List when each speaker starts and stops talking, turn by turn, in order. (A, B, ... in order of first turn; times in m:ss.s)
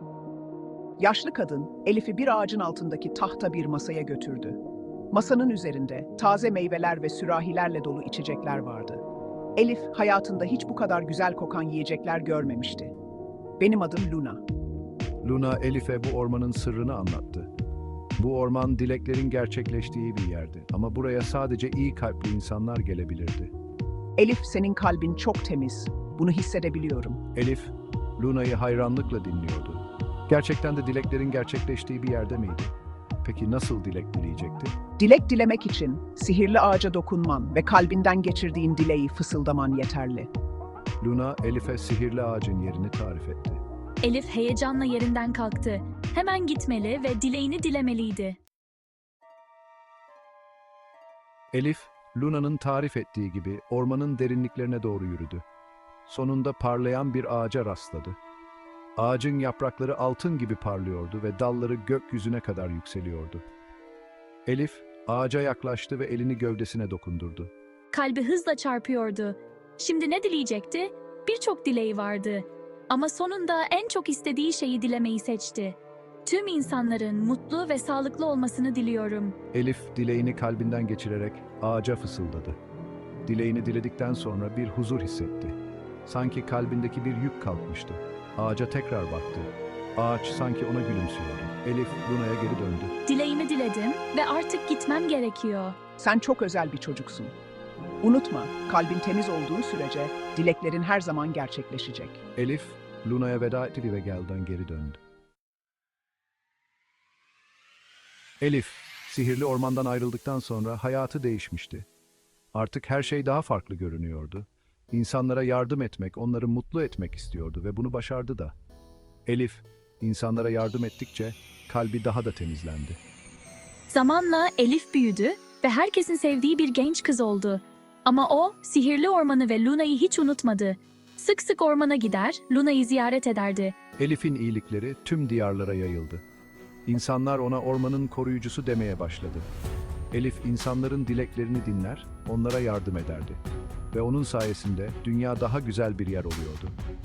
0:01.0-0:04.6 A
0:05.1-0:09.0 A
0:09.6-0:12.9 A
0:13.6-0:14.4 A
0:15.2-0:17.5 B
0:18.2-0:23.5 B
0:24.2-0:27.2 A
0:27.3-0:34.8 B
0:35.0-0:40.3 A
0:41.0-0:43.6 B
0:44.0-0:48.4 C
0:51.5-0:55.4 B
0:56.1-0:58.2 B
0:59.0-1:03.4 B
1:04.4-1:07.5 B
1:07.9-1:19.4 C
1:19.5-1:22.6 B
1:23.2-1:25.5 B
1:26.0-1:32.9 B
1:33.0-1:35.8 C
1:36.0-1:37.3 A
1:38.0-1:42.2 A
1:42.4-1:45.0 B
1:48.4-1:51.8 B
1:52.5-1:58.5 B
1:59.2-2:03.0 B
2:03.9-2:13.8 C
2:14.0-2:16.2 B
2:16.8-2:19.5 B
2:20.1-2:23.4 B
2:23.9-2:26.7 B